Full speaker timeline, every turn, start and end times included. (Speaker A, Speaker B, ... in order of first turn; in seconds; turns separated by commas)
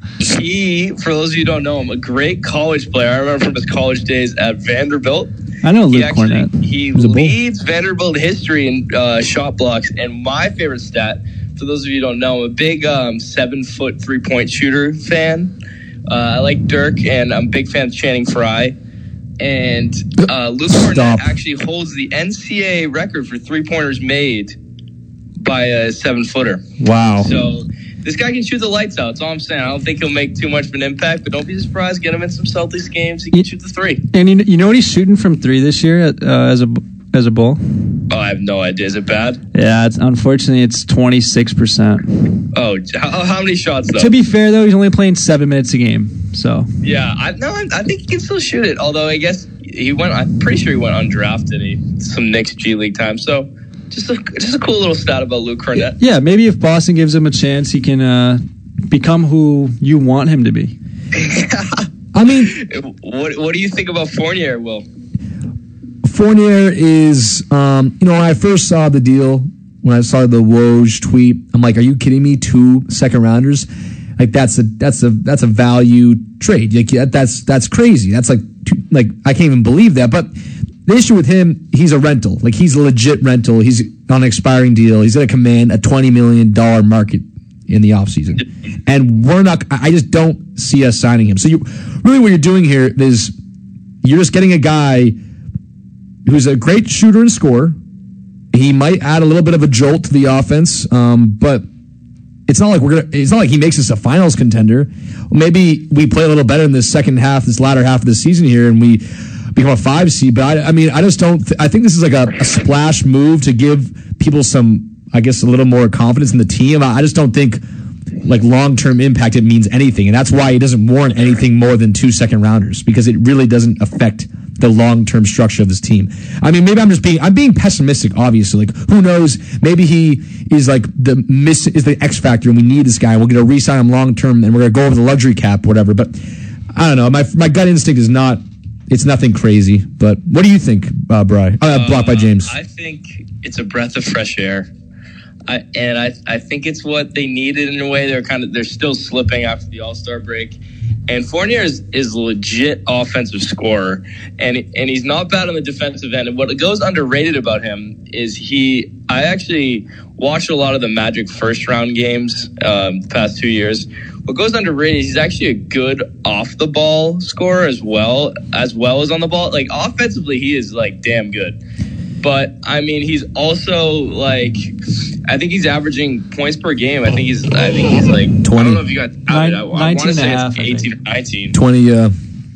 Speaker A: 0.2-5.3, Speaker B: 5.6-6.6, Speaker A: 5.9-15.5, Speaker C: 7.0-7.4, Speaker A: 16.1-18.8, Speaker A: 19.4-24.6, Speaker C: 20.7-21.3, Speaker A: 25.4-26.6, Speaker C: 26.8-27.3, Speaker A: 27.2-34.0, Speaker B: 34.1-37.9, Speaker A: 38.1-39.4, Speaker B: 39.5-42.4, Speaker A: 42.5-44.1, Speaker B: 44.0-46.7, Speaker A: 46.8-56.0, Speaker B: 56.0-60.8, Speaker A: 61.1-64.8, Speaker C: 62.1-62.5, Speaker C: 66.0-80.3, Speaker C: 80.8-93.3, Speaker C: 94.0-95.2, Speaker C: 96.3-97.8, Speaker C: 98.5-101.6, Speaker C: 102.5-109.0, Speaker C: 109.5-117.6, Speaker C: 118.2-136.2, Speaker C: 136.7-142.6, Speaker A: 141.7-144.7, Speaker A: 145.5-150.6, Speaker A: 151.1-171.6, Speaker A: 172.2-174.7, Speaker A: 175.3-181.6, Speaker C: 178.4-178.8, Speaker B: 179.3-180.9, Speaker C: 181.5-182.1